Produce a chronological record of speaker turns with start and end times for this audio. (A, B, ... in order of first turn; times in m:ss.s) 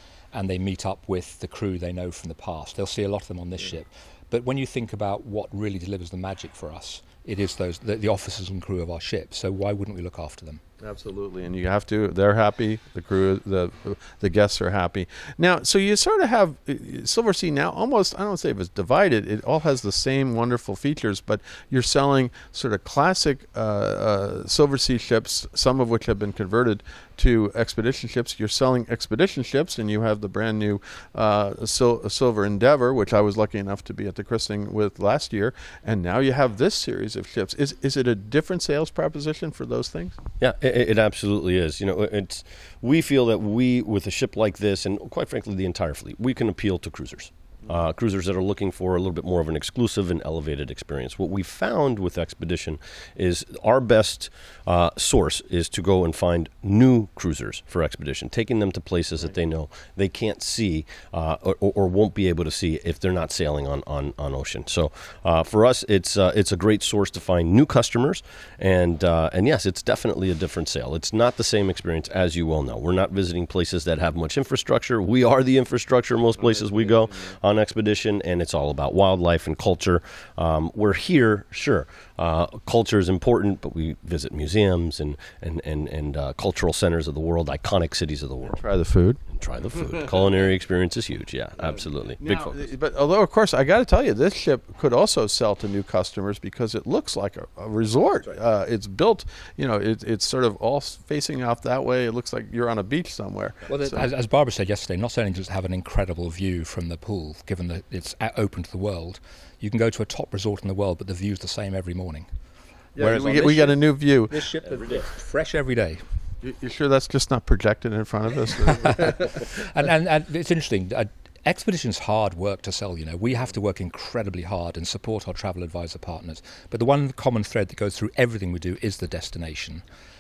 0:00.3-0:10.6 A
0:10.8-0:40.2 B
0:40.4-1:28.6 C
1:16.6-1:17.0 B
1:28.4-1:29.2 B
1:29.3-1:32.6 C
1:31.6-1:44.1 B
1:43.7-1:52.3 A
1:53.0-1:54.5 B
1:53.0-1:56.0 A
1:54.7-1:55.0 C
1:56.4-1:59.4 B
1:58.7-2:09.8 A